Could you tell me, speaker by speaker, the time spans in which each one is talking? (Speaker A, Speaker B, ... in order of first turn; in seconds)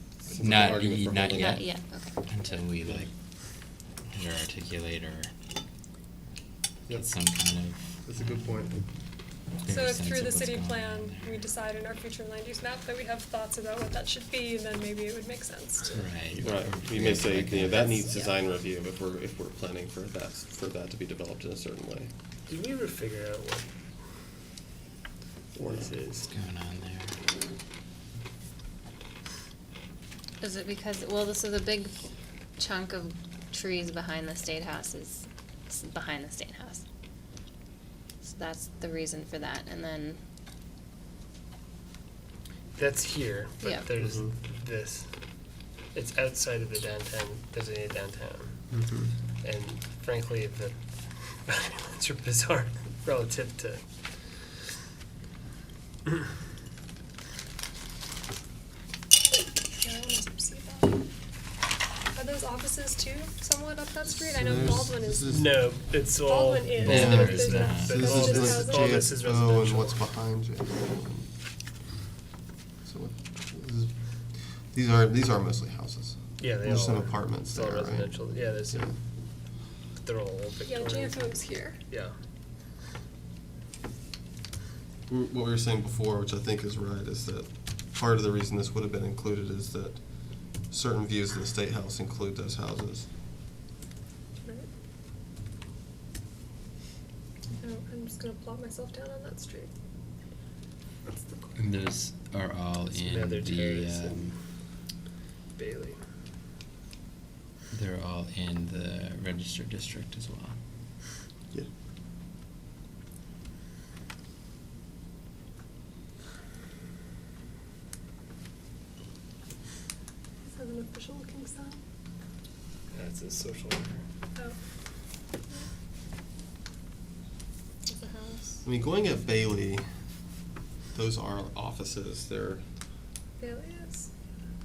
Speaker A: 0.2-1.6, 8.0-8.8, 16.4-22.1, 25.5-25.9, 44.0-44.3, 48.7-49.1, 64.1-65.6, 66.9-67.1, 67.8-71.3, 72.8-78.9, 85.1-93.1, 128.6-129.9, 130.9-132.6
Speaker B: 0.4-3.1, 4.1-5.3, 6.9-8.4, 9.6-11.4, 15.9-17.9, 26.2-27.2, 66.8-68.0, 101.5-104.3, 107.7-110.6
Speaker C: 1.3-2.2, 30.4-31.9, 32.6-36.8, 38.2-40.2, 43.6-43.9
Speaker D: 9.7-16.0, 59.8-61.0, 62.1-69.1, 80.7-81.8, 94.4-94.7, 97.6-99.7, 101.1-101.5, 120.4-121.8, 127.9-128.6, 133.4-134.1
Speaker E: 22.5-23.7, 25.5-26.3, 42.7-45.1, 45.9-48.6, 49.4-53.8, 65.3-70.0, 76.4-79.0, 80.0-82.1, 103.0-104.3, 105.5-106.0, 122.9-124.0